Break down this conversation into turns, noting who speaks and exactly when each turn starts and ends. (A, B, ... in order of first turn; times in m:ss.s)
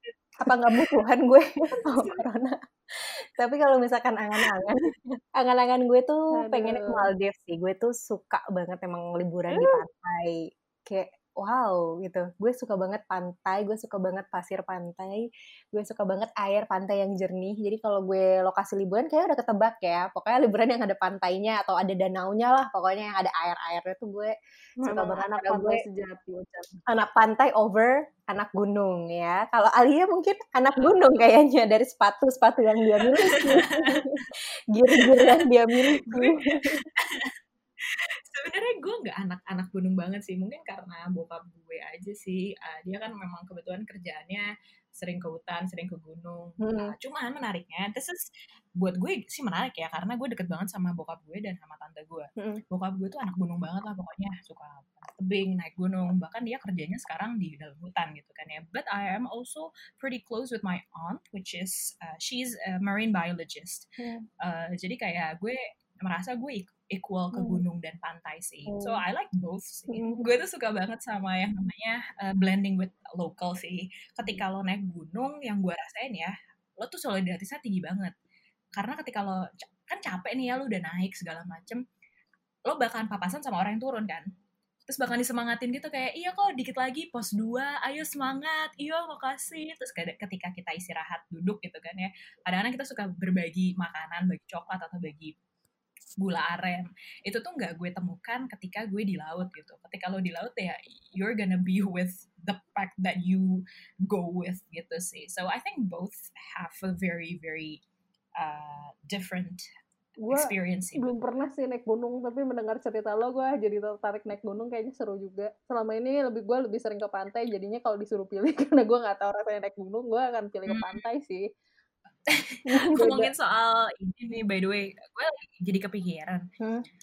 0:00.4-0:24.3 A
0:06.3-0:07.1 B
0:09.5-0:09.8 B
0:24.8-0:26.8 B
0:24.8-0:25.8 A
0:26.9-0:34.1 A
0:33.0-0:34.3 C
0:34.7-0:36.8 A
0:34.9-0:35.4 C
0:36.0-0:37.3 C
0:37.8-0:48.2 C
0:46.6-0:46.9 A
0:48.8-1:03.8 C
1:04.4-1:18.1 C
1:07.3-1:07.6 A
1:08.7-1:09.0 A
1:09.9-1:10.2 A
1:18.7-1:21.8 C
1:22.7-1:24.2 C
1:24.9-1:35.3 C
1:36.2-1:47.8 C
1:48.4-1:49.6 C
1:50.2-2:01.4 B
1:50.3-1:51.1 C
2:00.7-2:01.0 C
2:02.3-2:06.4 C
2:02.7-2:03.3 B
2:06.6-2:06.8 A